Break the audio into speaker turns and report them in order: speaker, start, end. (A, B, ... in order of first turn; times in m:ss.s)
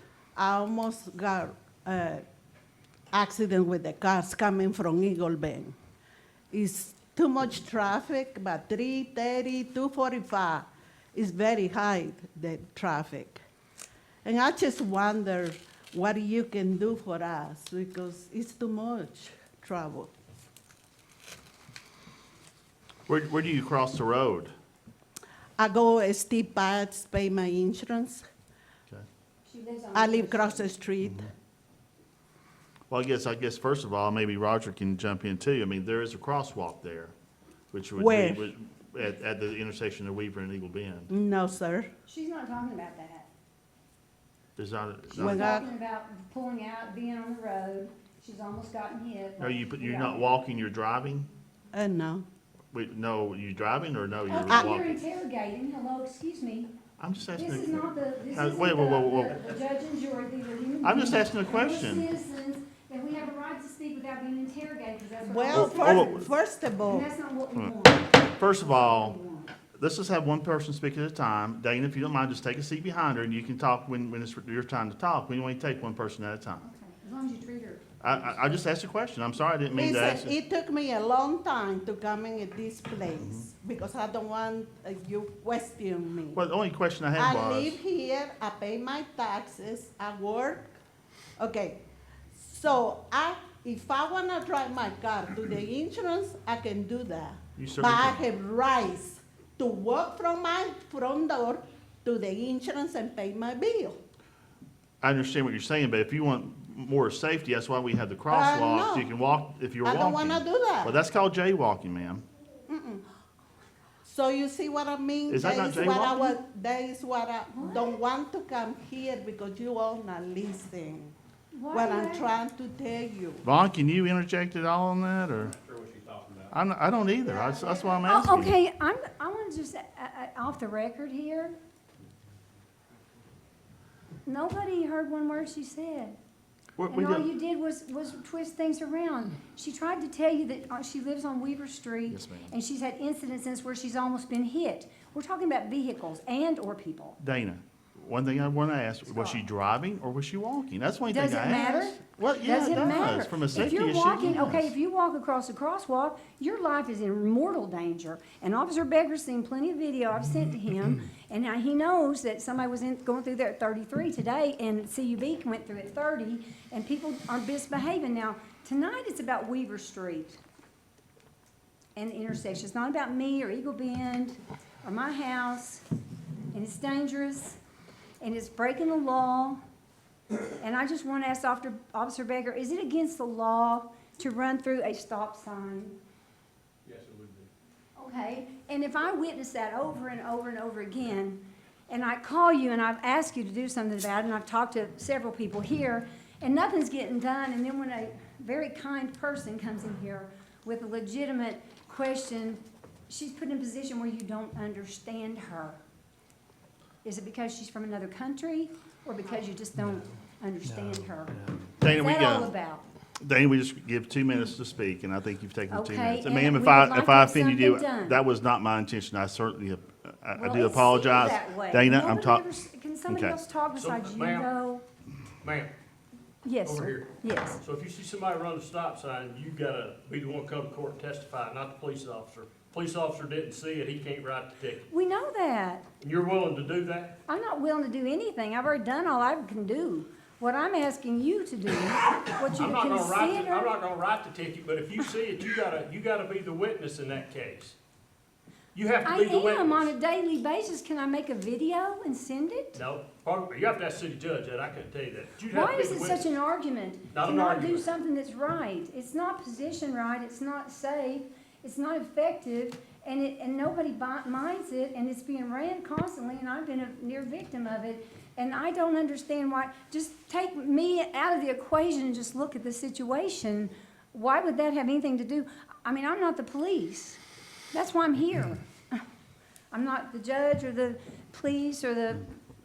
0:00.4-0:02.2 A
0:03.1-0:05.8 A
0:06.5-0:13.4 A
0:14.2-0:20.1 A
0:23.1-0:24.5 B
0:25.6-0:28.3 A
0:29.5-0:30.7 C
0:29.9-0:31.3 A
0:32.9-0:37.1 B
0:37.7-0:41.1 B
0:38.0-0:38.5 A
0:41.1-0:41.9 A
0:42.1-0:43.3 C
0:44.6-0:45.7 B
0:45.1-0:50.3 C
0:45.2-0:45.7 A
0:49.4-0:51.3 B
0:51.7-0:52.2 A
0:52.7-0:55.0 B
0:54.3-0:56.7 C
0:57.0-0:59.4 B
0:57.4-1:06.2 C
1:00.8-1:02.1 B
1:05.2-1:07.1 A
1:05.5-1:06.3 B
1:06.9-1:09.5 C
1:08.4-1:09.2 B
1:09.8-1:16.6 B
1:16.6-1:18.6 C
1:18.0-1:20.4 B
1:19.7-1:26.4 A
1:26.3-1:27.8 B
1:27.2-1:30.8 A
1:31.4-1:31.8 A
1:32.3-1:44.0 A
1:37.6-1:38.2 B
1:45.0-1:52.2 B
1:48.3-1:49.1 A
1:49.8-1:51.0 A
1:52.7-1:53.0 A
1:54.0-2:01.2 A
1:55.3-1:56.4 B
1:57.5-1:58.0 C
2:01.5-2:02.3 C
2:01.7-2:03.4 A
2:03.4-2:05.6 B
2:05.6-2:06.5 D
2:06.5-2:08.6 B
2:07.2-2:08.0 A
2:08.0-2:11.6 C
2:14.3-2:16.2 C
2:16.8-2:17.3 B
2:16.9-2:27.2 C
2:22.1-2:22.5 B
2:27.2-2:34.7 B
2:31.1-2:50.4 C
2:52.0-2:55.8 C
2:56.5-2:57.6 C
2:58.2-2:59.6 C
3:00.6-3:06.0 C
3:06.8-3:07.5 D
3:08.0-3:25.8 C
3:27.0-3:32.8 C
3:31.8-3:32.5 B
3:33.2-3:42.5 B
3:35.7-3:38.2 C
3:40.4-3:44.8 C
3:43.1-3:43.4 B
3:43.8-3:44.5 D
3:45.4-3:45.7 D
3:46.4-3:47.6 C
3:46.6-3:54.9 D
3:54.9-3:55.9 C
3:56.0-3:57.2 D
3:57.3-4:03.7 C
4:02.2-4:07.8 D
4:08.7-4:09.9 D
4:09.0-4:12.8 C
4:12.8-4:16.3 D
4:15.5-4:37.2 C
4:17.1-4:17.9 D
4:37.7-4:39.0 C
4:39.7-4:42.3 C